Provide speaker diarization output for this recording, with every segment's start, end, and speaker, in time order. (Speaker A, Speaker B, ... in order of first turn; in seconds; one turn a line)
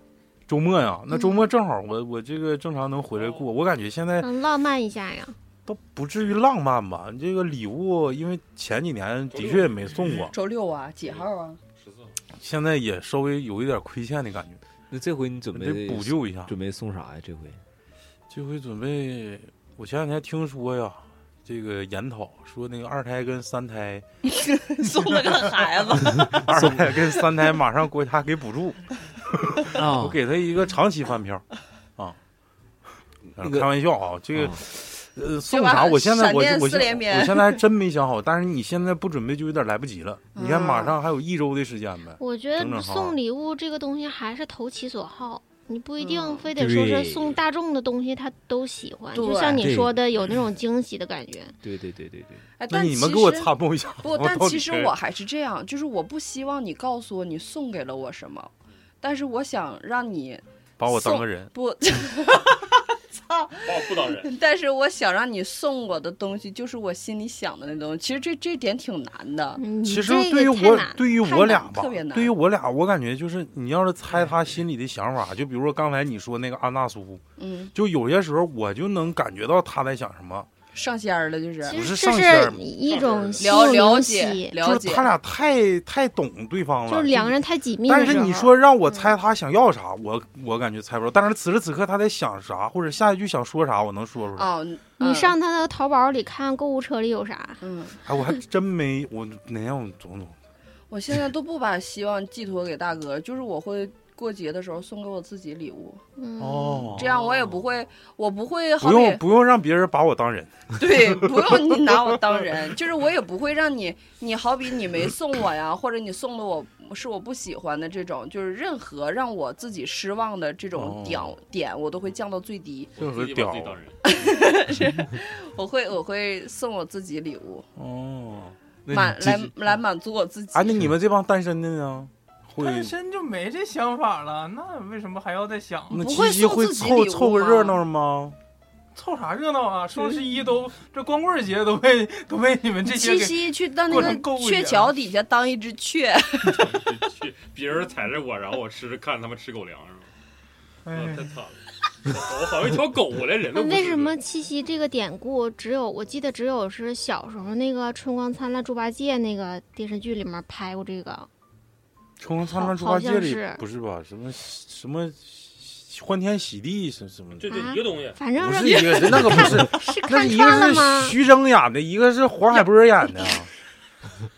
Speaker A: 0.5-4.2
Speaker B: 1.1-1.5
Speaker C: 3.1-3.5
Speaker B: 4.2-5.3
Speaker A: 5.7-10.3
Speaker C: 9.3-10.2
Speaker D: 10.3-11.6
Speaker C: 11.0-12.2
Speaker A: 12.4-14.6
Speaker E: 14.9-17.6
Speaker A: 15.5-16.5
Speaker A: 18.3-24.1
Speaker D: 24.3-26.4
Speaker A: 26.0-31.4
Speaker E: 26.3-26.8
Speaker E: 29.7-30.2
Speaker A: 33.3-43.1
Speaker E: 33.4-33.7
Speaker E: 34.3-34.6
Speaker D: 35.5-37.6
Speaker D: 40.3-41.0
Speaker B: 42.2-51.5
Speaker D: 46.0-46.5
Speaker E: 46.5-47.4
Speaker D: 49.1-49.7
Speaker E: 49.5-50.0
Speaker E: 51.6-52.4
Speaker D: 52.6-58.5
Speaker A: 52.7-54.9
Speaker D: 59.0-69.6
Speaker A: 60.8-61.5
Speaker C: 63.6-64.3
Speaker B: 69.6-71.0
Speaker A: 69.8-77.2
Speaker D: 71.2-72.3
Speaker D: 77.4-77.7
Speaker A: 77.7-80.5
Speaker D: 80.7-81.8
Speaker B: 81.7-84.6
Speaker A: 81.7-82.6
Speaker C: 82.8-83.5
Speaker D: 83.4-85.1
Speaker A: 84.6-94.5
Speaker B: 86.9-89.1
Speaker D: 94.3-95.4
Speaker B: 95.0-97.6
Speaker D: 97.6-98.0
Speaker A: 98.0-100.4
Speaker D: 100.9-106.0
Speaker B: 106.2-106.9
Speaker A: 106.4-107.4
Speaker D: 106.9-109.2
Speaker A: 108.8-111.0
Speaker D: 110.8-122.9
Speaker A: 120.7-121.3
Speaker C: 123.0-124.4
Speaker A: 123.0-123.8
Speaker D: 124.0-127.7
Speaker A: 127.8-128.5
Speaker E: 128.8-129.5
Speaker D: 128.9-130.8
Speaker A: 130.5-132.9
Speaker F: 132.6-136.0
Speaker A: 135.9-138.4
Speaker D: 135.9-137.8
Speaker F: 138.9-144.9
Speaker D: 142.9-146.7
Speaker C: 146.4-150.1
Speaker C: 150.9-154.1
Speaker B: 153.5-161.3
Speaker A: 162.2-167.6
Speaker B: 162.5-163.6
Speaker C: 167.4-168.2
Speaker B: 167.5-171.2
Speaker A: 168.4-173.5
Speaker D: 168.5-169.7